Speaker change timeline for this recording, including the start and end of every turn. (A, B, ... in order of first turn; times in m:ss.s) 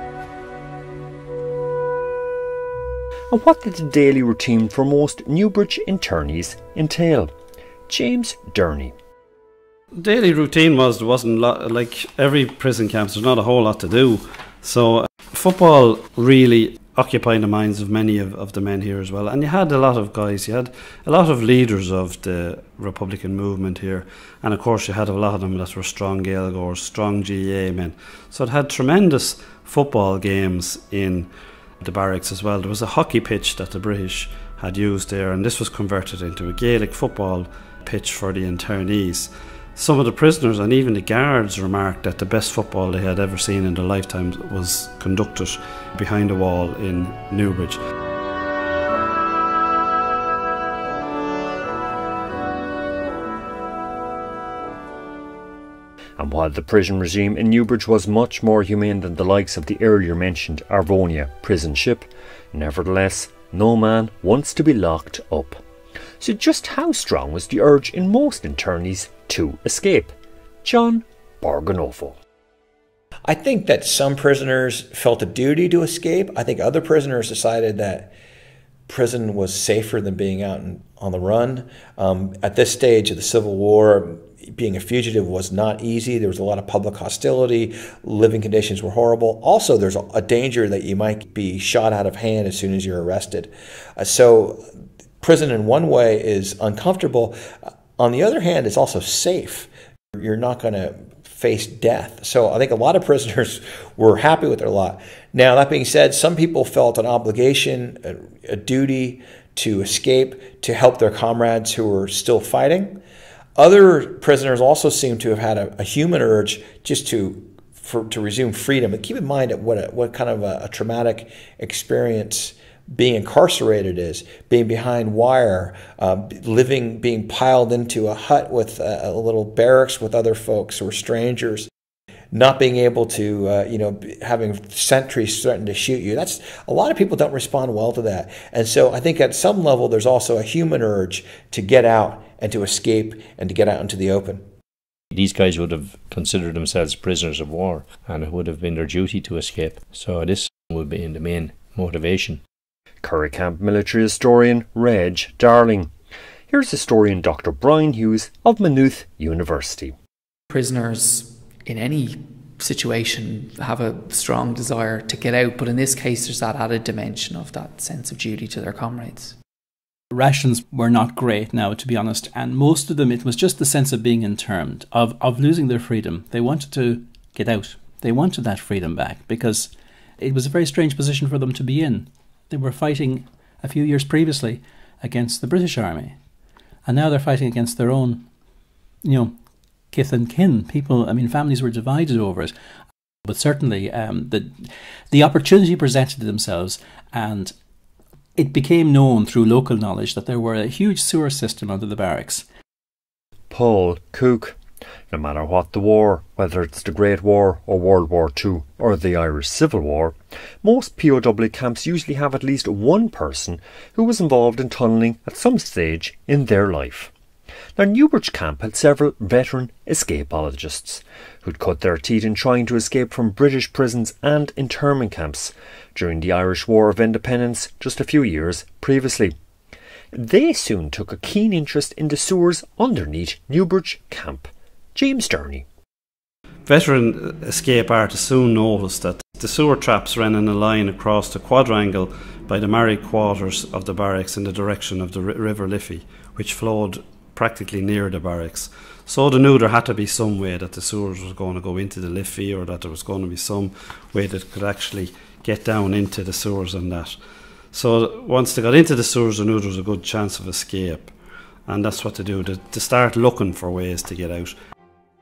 0:03.3-0:07.3 A
0:07.9-0:08.9 A
0:10.0-0:47.8 B
0:56.2-1:05.6 A
1:06.2-1:12.2 A
1:13.2-1:18.1 C
1:18.9-1:34.6 C
1:35.2-1:53.0 C
1:53.6-2:11.7 C
2:12.3-2:24.4 C
2:25.1-2:32.4 D
2:33.0-2:35.9 A
2:36.5-2:39.9 A
2:40.5-2:49.4 E
2:50.1-3:06.2 F
3:06.9-3:08.3 F
3:09.0-3:09.4 F
3:09.9-3:12.5 F
3:13.2-3:17.5 F
3:18.4-3:22.4 F
3:23.5-3:24.6 A
3:25.1-3:37.1 A
3:37.8-3:49.4 A
3:50.1-3:55.6 A
3:56.6-4:17.2 B
4:17.7-4:21.1 B
4:21.7-4:24.5 B